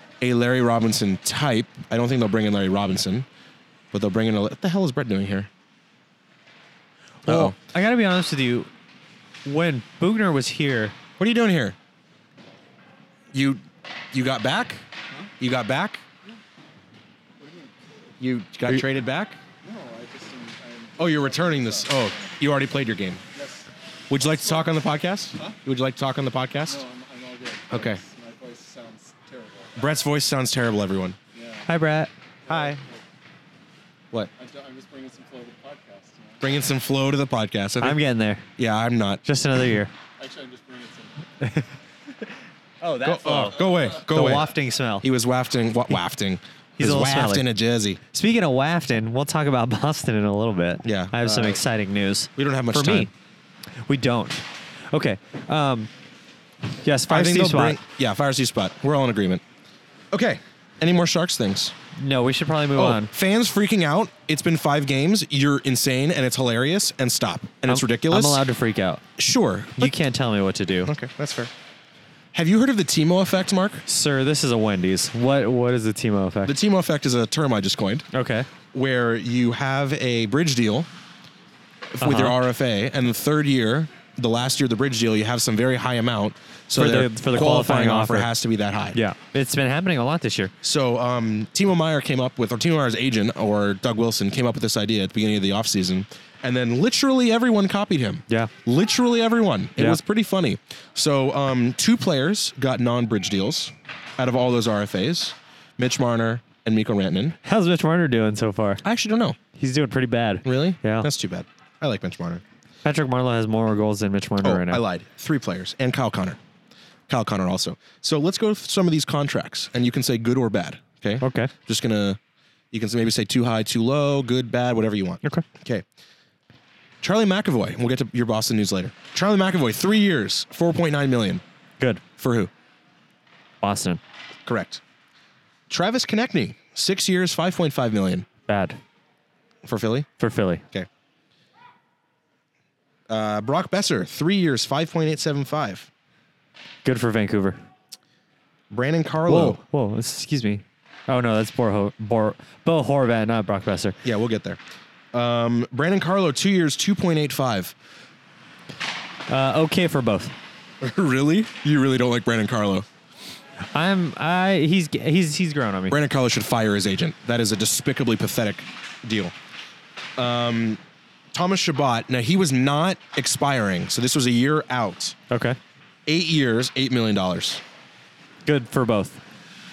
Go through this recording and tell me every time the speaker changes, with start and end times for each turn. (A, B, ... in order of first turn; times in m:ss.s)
0:00.2-0:03.3 A
0:03.9-0:05.5 A
0:07.2-0:08.7 B
0:07.3-0:07.6 A
0:09.4-0:11.0 B
0:11.2-0:11.8 A
0:13.3-0:13.6 A
0:14.1-0:14.8 A
0:15.4-0:16.0 A
0:17.4-0:17.7 C
0:18.2-0:19.4 A
0:19.6-0:22.0 C
0:21.0-0:23.2 A
0:23.4-0:23.7 C
0:24.1-0:26.8 A
0:24.2-0:24.7 C
0:26.7-0:29.7 C
0:27.7-0:28.0 A
0:29.8-0:31.2 A
0:31.4-0:31.6 C
0:31.7-0:32.1 B
0:32.5-0:33.0 C
0:32.5-0:32.8 A
0:34.4-0:36.4 C
0:36.4-0:38.0 A
0:37.8-0:38.5 B
0:38.6-0:39.2 A
0:39.2-0:39.9 B
0:40.2-0:41.2 C
0:41.4-0:41.7 B
0:42.8-0:45.0 B
0:43.0-0:44.5 A
0:45.0-0:48.0 A
0:46.8-0:47.4 B
0:48.1-0:53.1 B
0:50.8-0:51.6 A
0:52.4-0:53.1 A
0:53.9-0:55.9 B
0:56.8-0:57.8 B
0:57.1-0:59.4 A
1:00.1-1:01.7 A
1:02.0-1:03.1 B
1:02.8-1:08.4 A
1:07.7-1:09.1 B
1:09.2-1:09.9 A
1:09.8-1:10.9 B
1:10.9-1:11.5 A
1:12.3-1:13.8 A
1:13.9-1:16.5 B
1:16.4-1:18.1 A
1:18.1-1:18.5 B
1:18.7-1:20.9 A
1:21.9-1:29.0 A
1:22.0-1:22.4 B
1:26.7-1:28.3 B
1:29.0-1:30.5 B
1:30.6-1:47.4 A
1:47.4-1:48.8 B
1:48.8-1:49.4 A
1:49.6-1:51.1 B
1:50.4-1:52.4 A
1:52.8-1:54.8 B
1:54.4-1:56.4 A
1:57.1-2:02.2 A
2:01.2-2:01.5 B
2:02.7-2:05.8 A
2:07.0-2:11.4 A
2:12.2-2:12.5 A
2:13.6-2:14.0 B
2:14.5-2:14.8 A
2:15.7-2:18.3 A
2:18.5-2:18.8 B
2:19.6-2:20.1 A
2:20.2-2:20.6 B
2:23.1-2:25.9 A
2:26.8-2:27.6 B
2:28.7-2:29.6 A
2:29.3-2:34.0 B
2:34.0-2:34.6 A
2:35.1-2:37.7 A
2:39.3-2:40.4 B
2:40.8-2:42.9 A
2:43.7-2:46.0 B
2:45.9-2:49.3 A
2:50.2-2:50.8 A
2:51.3-2:55.2 A
2:55.3-2:55.6 B
2:56.1-2:57.6 A
2:58.4-2:59.2 B